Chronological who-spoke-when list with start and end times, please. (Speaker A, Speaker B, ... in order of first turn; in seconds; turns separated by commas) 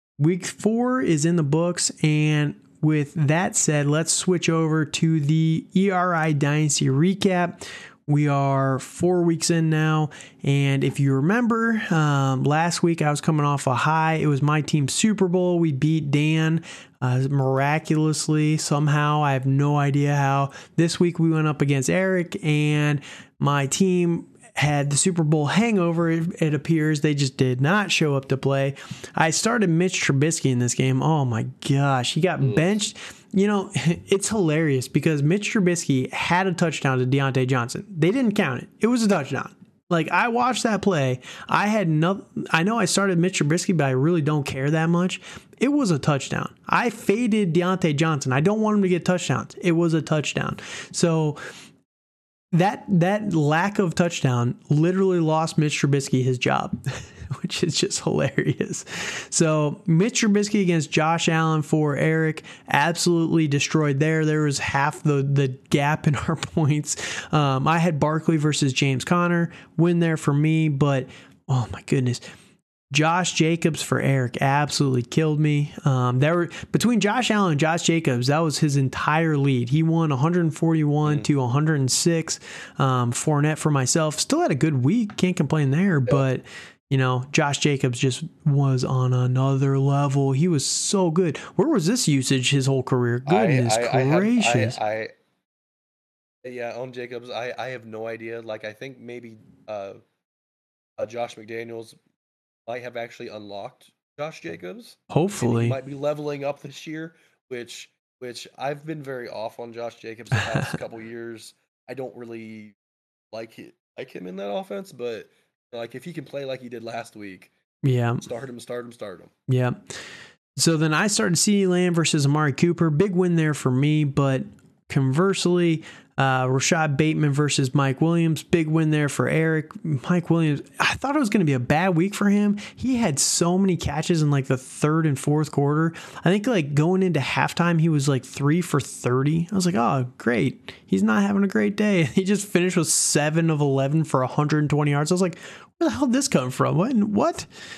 Speaker A: 0.2-51.4, Speaker B: 32.4-32.8, Speaker A: 52.5-72.2, Speaker A: 72.9-94.8, Speaker B: 81.0-81.3, Speaker B: 93.3-95.1, Speaker B: 96.4-100.0, Speaker B: 101.0-102.0, Speaker B: 102.7-112.8, Speaker A: 105.1-105.8, Speaker A: 110.4-110.7, Speaker B: 113.3-117.5, Speaker A: 117.8-118.2, Speaker B: 118.2-119.3, Speaker A: 119.5-120.0, Speaker A: 120.6-147.5